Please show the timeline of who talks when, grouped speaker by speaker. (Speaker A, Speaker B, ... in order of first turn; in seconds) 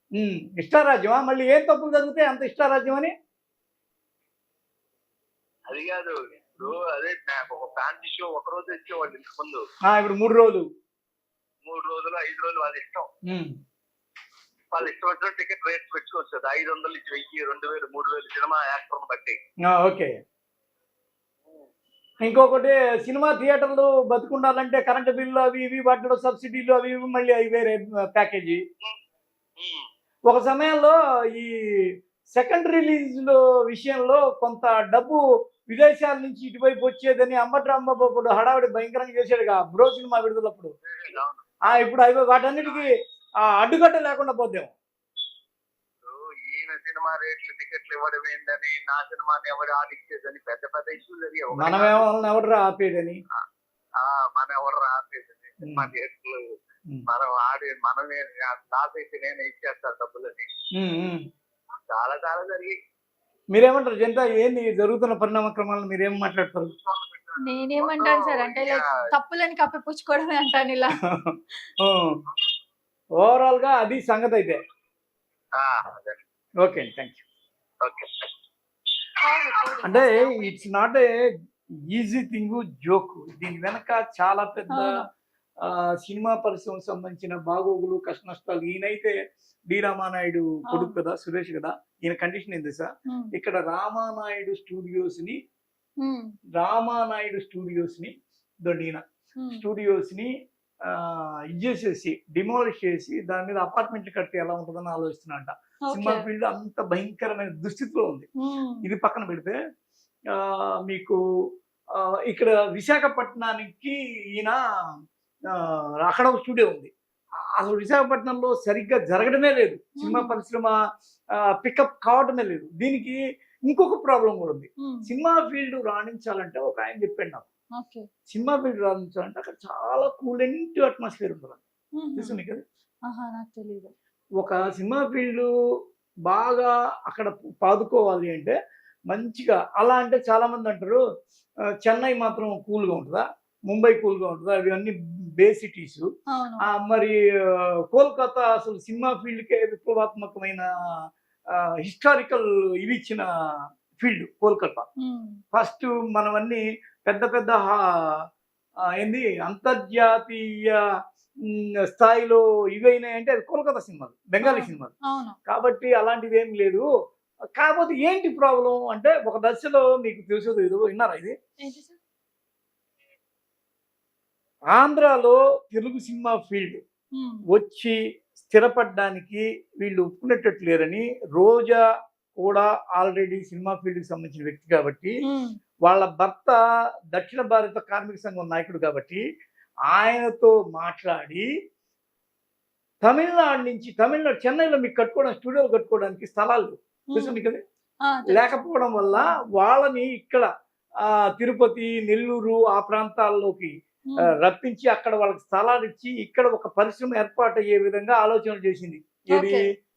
Speaker A: 0.2-3.1, 9.9-10.7, 13.3-13.6, 19.6-20.1, 22.2-28.6, 30.3-31.5, 32.3-40.7, 41.6-42.9, 43.4-44.7, 51.5-53.2, 55.6-55.9, 60.8-61.2, 63.5-66.7, 71.1-72.2, 73.2-74.6, 76.6-77.2, 79.8-81.1, 81.9-85.0, 85.6-89.1, 89.7-95.4, 96.6-98.1, 98.6-100.3, 100.9-108.3, 108.8-109.6, 110.3-111.2, 112.0-114.6, 115.5-116.9, 117.6-120.7, 121.5-127.5, 128.3-131.6, 132.2-132.6, 134.4-135.5, 136.3-138.6, 139.1-141.0, 141.8-146.1, 146.7-150.7, 151.6-153.2, 154.0-154.8, 155.5-157.8, 159.0-160.8, 161.4-164.9, 165.5-166.9, 167.6-171.3, 174.7-176.8, 177.5-181.8, 182.3-185.2, 185.8-186.6, 187.1-189.2, 189.9-191.4, 193.0-197.6, 198.3-200.5, 201.0-203.7, 204.2-209.6
Speaker B: 5.7-9.6, 11.6-13.1, 14.7-19.4, 29.6-29.9, 40.8-41.7, 42.6-42.9, 46.0-52.0, 54.0-56.5, 57.1-60.5, 61.9-62.7, 66.8-68.9, 75.5-76.2, 77.8-78.3
Speaker C: 67.4-71.0, 79.2-80.7, 84.7-85.0, 90.7-91.0, 93.1-93.3, 96.0-96.3, 99.4-99.6, 105.9-106.2, 108.4-108.8, 120.0-120.4, 124.8-125.1, 127.8-128.1, 132.0-132.4, 133.1-133.9, 146.3-146.7, 155.0-155.4, 164.4-165.4, 171.6-172.0, 177.2-177.4, 185.2-185.6, 197.1-197.4, 198.0-198.6, 209.3-209.7